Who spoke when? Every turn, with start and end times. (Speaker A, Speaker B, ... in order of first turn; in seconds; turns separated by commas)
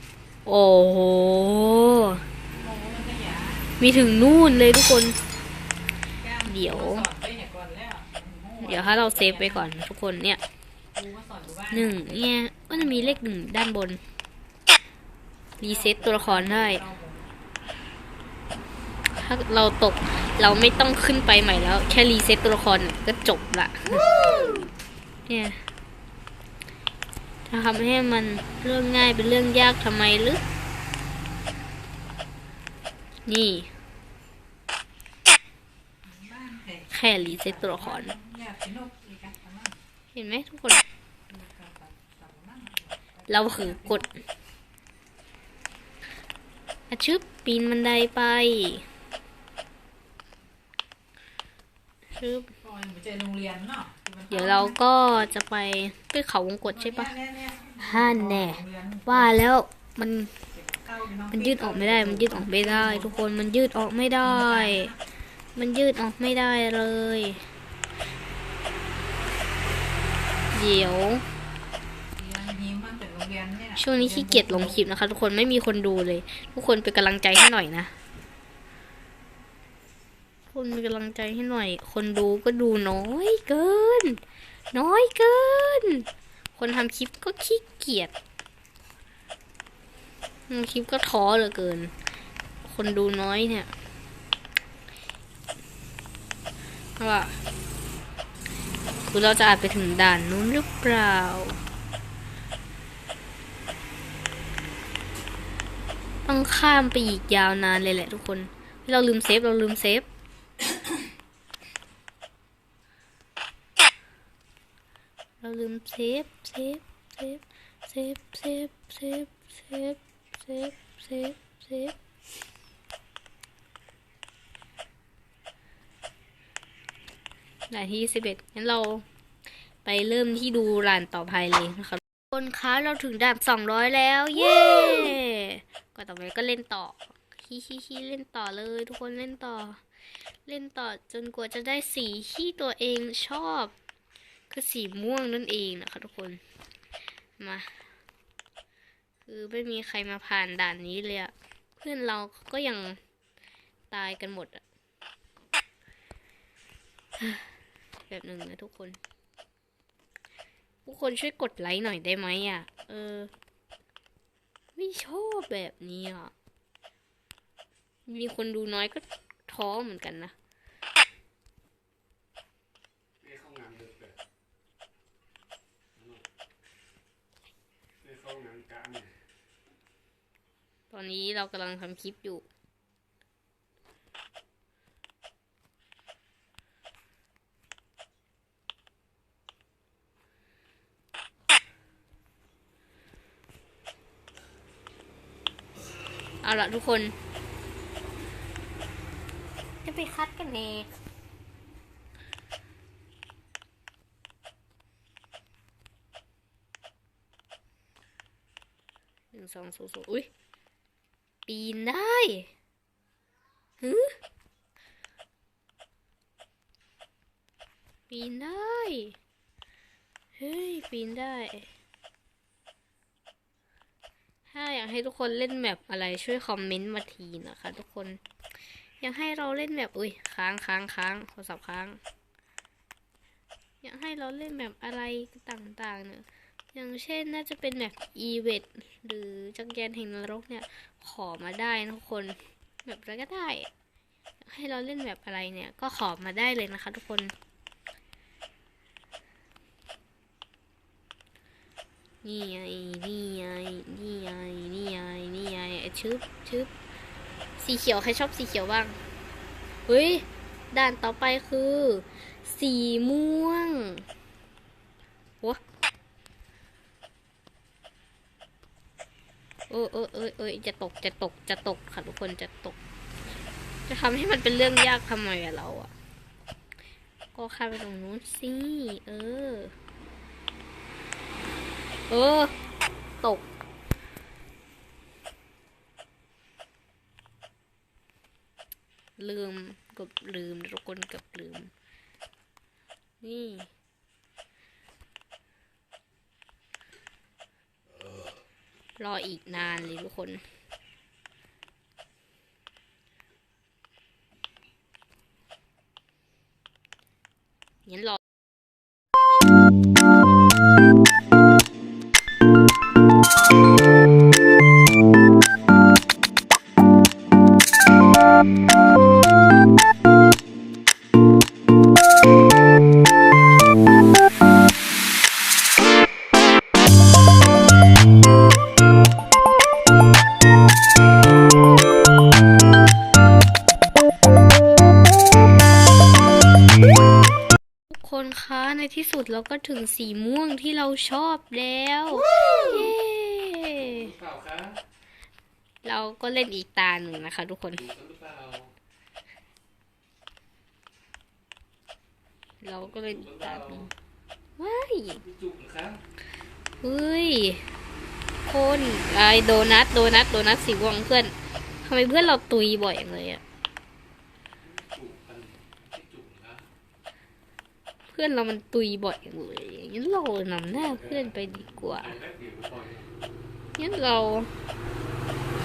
Speaker A: 0.5-2.2, Speaker B: 2.5-3.7, Speaker A: 3.8-5.2, Speaker B: 6.2-9.7, Speaker A: 6.4-7.0, Speaker A: 8.6-10.4, Speaker B: 10.9-13.2, Speaker A: 11.7-14.0, Speaker A: 15.6-16.8, Speaker B: 15.6-17.3, Speaker A: 19.1-24.7, Speaker A: 25.3-25.6, Speaker A: 27.5-30.4, Speaker A: 33.3-33.7, Speaker B: 36.0-39.8, Speaker A: 36.9-38.1, Speaker A: 40.1-40.8, Speaker B: 41.3-44.1, Speaker A: 43.3-44.2, Speaker A: 46.9-48.8, Speaker A: 52.1-52.5, Speaker B: 52.6-54.8, Speaker A: 54.3-57.1, Speaker B: 56.6-59.4, Speaker A: 57.8-60.3, Speaker B: 60.5-63.3, Speaker A: 61.3-64.9, Speaker B: 64.2-65.0, Speaker A: 65.5-67.4, Speaker B: 69.2-69.5, Speaker A: 70.5-71.2, Speaker B: 72.2-74.8, Speaker A: 73.8-77.9, Speaker A: 80.5-84.2, Speaker A: 84.7-88.1, Speaker A: 90.5-91.9, Speaker A: 92.6-93.7, Speaker A: 97.0-97.4, Speaker A: 99.0-101.6, Speaker A: 106.2-110.1, Speaker A: 115.4-122.0, Speaker A: 127.7-129.0, Speaker A: 129.8-139.8, Speaker A: 140.4-143.7, Speaker A: 144.5-146.4, Speaker A: 147.4-147.8, Speaker A: 149.2-153.0, Speaker A: 153.9-154.6, Speaker A: 157.2-157.5, Speaker A: 158.1-159.0, Speaker A: 160.8-163.3, Speaker A: 164.7-166.3, Speaker A: 168.1-170.3, Speaker C: 173.2-174.2, Speaker C: 175.9-176.2, Speaker C: 178.0-179.1, Speaker A: 180.9-182.4, Speaker A: 196.4-197.1, Speaker A: 199.8-200.9, Speaker A: 209.3-210.3, Speaker A: 211.4-212.5, Speaker A: 213.8-214.2, Speaker A: 218.1-219.2, Speaker A: 220.4-221.7, Speaker A: 224.5-228.2, Speaker A: 229.0-232.0, Speaker A: 233.8-243.7, Speaker A: 244.4-247.3, Speaker A: 252.2-256.7, Speaker A: 257.6-259.0, Speaker A: 259.9-264.0, Speaker A: 269.7-272.8, Speaker A: 273.9-275.9, Speaker A: 277.3-279.7, Speaker A: 282.1-282.5, Speaker A: 283.2-283.4, Speaker A: 289.2-291.7, Speaker A: 293.2-293.7, Speaker A: 299.0-300.4, Speaker A: 307.9-308.2, Speaker A: 337.9-344.1, Speaker C: 343.7-344.8, Speaker A: 345.8-347.9, Speaker C: 347.8-348.7, Speaker A: 352.6-353.9, Speaker C: 352.9-353.9, Speaker A: 354.6-355.2, Speaker C: 355.2-356.0, Speaker A: 356.8-357.6, Speaker A: 358.4-363.4, Speaker C: 364.6-366.7, Speaker A: 368.1-372.2, Speaker C: 370.8-373.1, Speaker A: 373.8-374.5